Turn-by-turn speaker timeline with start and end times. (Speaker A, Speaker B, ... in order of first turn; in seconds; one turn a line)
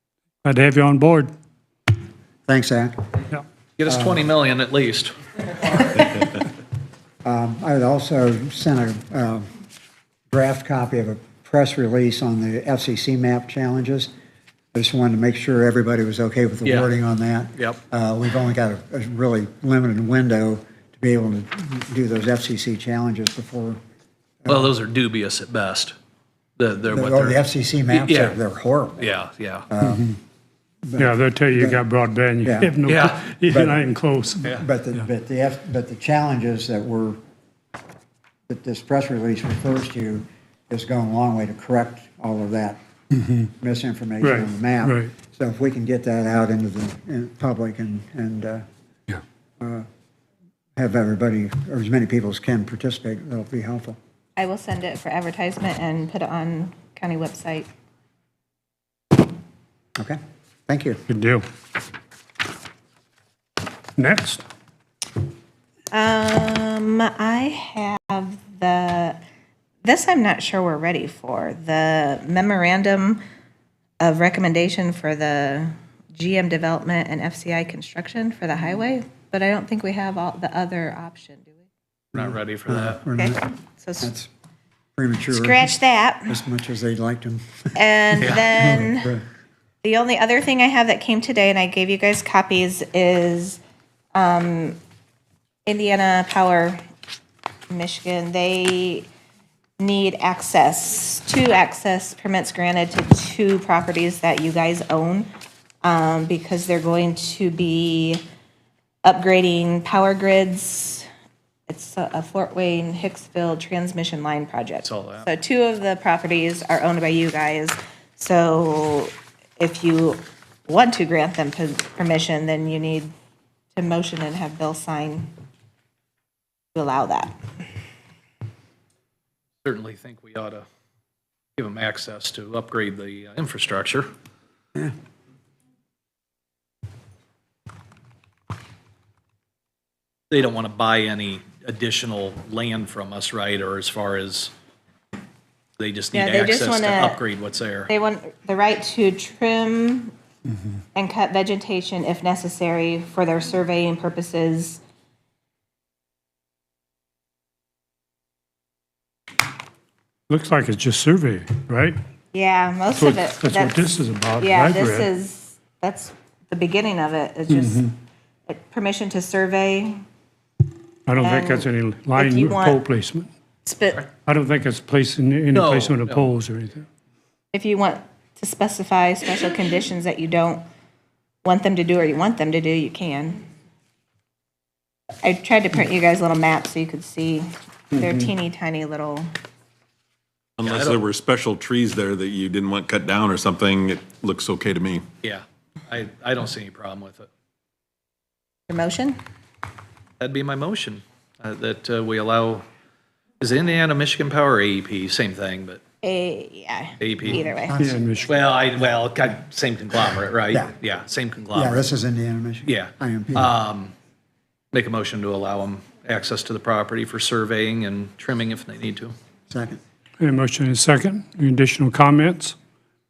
Speaker A: 0.4-1.3
Speaker B: 2.5-3.0
Speaker C: 3.8-6.3
Speaker B: 3.9-4.2
Speaker B: 7.2-9.5
Speaker B: 10.3-14.1
Speaker B: 14.7-23.8
Speaker C: 16.6-16.9
Speaker B: 24.4-24.7
Speaker C: 24.5-25.9
Speaker C: 26.6-28.4
Speaker B: 26.9-29.1
Speaker C: 29.0-29.7
Speaker B: 29.7-30.1
Speaker A: 29.8-30.1
Speaker B: 30.8-31.8
Speaker A: 31.0-34.5
Speaker B: 32.5-32.8
Speaker C: 32.9-33.2
Speaker B: 33.5-33.9
Speaker B: 34.5-37.2
Speaker B: 38.5-42.8
Speaker B: 43.4-48.6
Speaker A: 44.2-45.1
Speaker B: 49.6-49.9
Speaker B: 50.8-54.0
Speaker D: 54.4-57.7
Speaker B: 60.0-61.0
Speaker A: 61.1-61.4
Speaker A: 64.0-64.4
Speaker D: 65.9-69.2
Speaker D: 69.8-73.2
Speaker D: 74.0-81.7
Speaker C: 82.1-83.0
Speaker B: 82.2-84.3
Speaker D: 83.2-84.1
Speaker B: 85.0-85.7
Speaker D: 85.3-86.4
Speaker B: 86.3-89.2
Speaker D: 87.8-89.2
Speaker C: 88.2-88.5
Speaker D: 89.8-93.6
Speaker D: 94.2-94.8
Speaker D: 95.7-96.8
Speaker D: 97.7-99.1
Speaker D: 99.8-105.3
Speaker D: 105.8-108.2
Speaker D: 109.0-111.1
Speaker D: 111.7-123.1
Speaker C: 114.8-115.3
Speaker D: 123.8-125.3
Speaker D: 126.8-127.3
Speaker C: 129.6-130.7
Speaker C: 131.6-134.1
Speaker C: 140.3-144.5
Speaker C: 145.8-147.9
Speaker D: 146.1-147.2
Speaker D: 147.9-150.1
Speaker D: 150.9-154.8
Speaker A: 160.3-162.0
Speaker D: 162.3-167.9
Speaker A: 162.9-165.1
Speaker A: 167.5-167.9
Speaker D: 168.5-170.0
Speaker A: 171.1-173.3
Speaker D: 171.2-172.8
Speaker D: 173.7-174.1
Speaker A: 174.2-176.9
Speaker C: 175.5-176.3
Speaker D: 177.5-180.6
Speaker D: 181.4-183.4
Speaker D: 185.2-189.3
Speaker E: 190.6-195.1
Speaker C: 190.7-191.0
Speaker C: 195.2-197.3
Speaker D: 198.7-199.2
Speaker C: 200.2-202.7
Speaker C: 203.4-205.8
Speaker D: 206.0-207.9
Speaker C: 207.0-207.4
Speaker B: 207.2-207.9
Speaker A: 207.8-208.4
Speaker C: 208.3-211.9
Speaker B: 211.5-213.5
Speaker C: 212.7-213.9
Speaker C: 214.7-219.1
Speaker B: 219.5-219.8
Speaker A: 220.2-222.6